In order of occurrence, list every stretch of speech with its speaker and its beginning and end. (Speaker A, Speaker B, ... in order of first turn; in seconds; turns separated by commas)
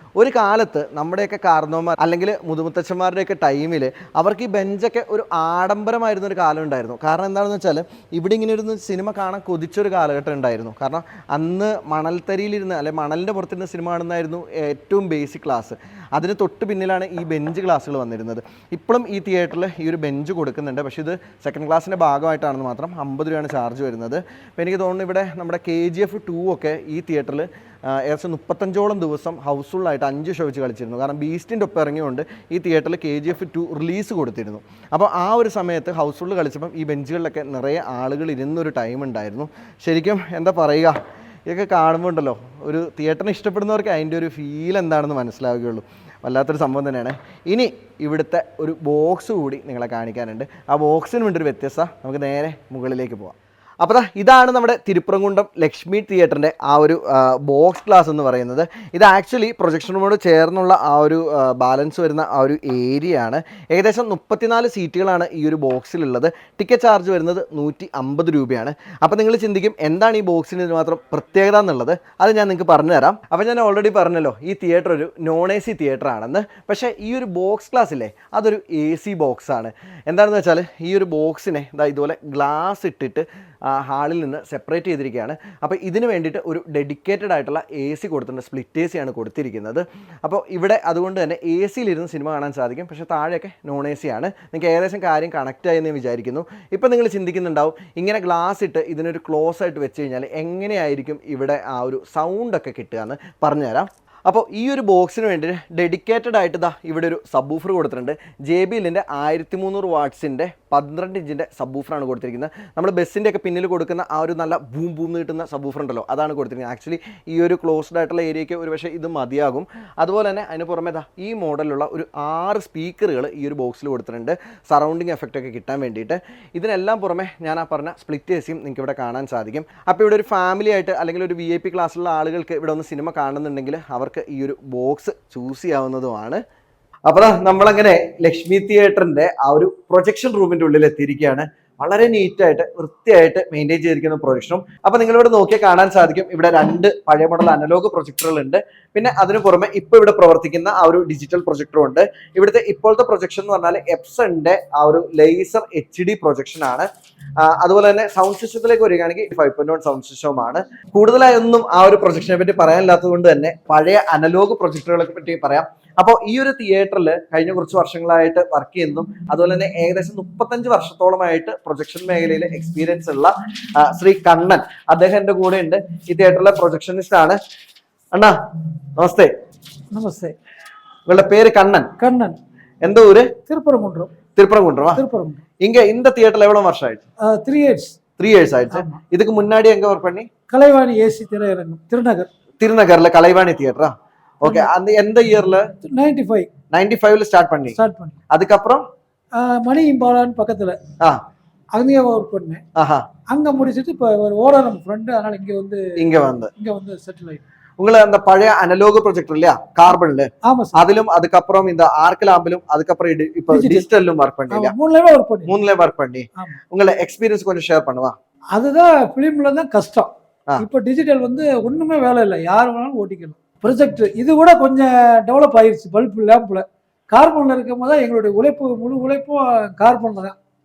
Speaker A: 0.2-136.4, Speaker A: 137.1-156.9, Speaker A: 157.4-177.4, Speaker A: 179.0-179.3, Speaker B: 179.9-180.4, Speaker A: 181.1-181.9, Speaker B: 182.0-182.4, Speaker A: 182.8-183.3, Speaker B: 183.5-184.1, Speaker A: 184.4-185.0, Speaker B: 184.9-185.4, Speaker A: 185.6-187.0, Speaker B: 187.2-188.0, Speaker A: 188.2-190.3, Speaker B: 188.7-189.0, Speaker B: 190.5-192.3, Speaker A: 192.6-195.7, Speaker B: 194.4-194.7, Speaker B: 195.8-196.5, Speaker A: 196.7-197.8, Speaker B: 197.7-198.2, Speaker A: 198.3-198.8, Speaker B: 199.3-200.8, Speaker B: 201.7-202.6, Speaker A: 202.8-203.1, Speaker B: 203.3-205.9, Speaker A: 206.0-206.5, Speaker B: 206.6-207.4, Speaker A: 207.8-214.8, Speaker B: 210.4-210.8, Speaker B: 213.5-213.9, Speaker B: 214.5-215.6, Speaker A: 215.5-218.2, Speaker B: 218.5-230.4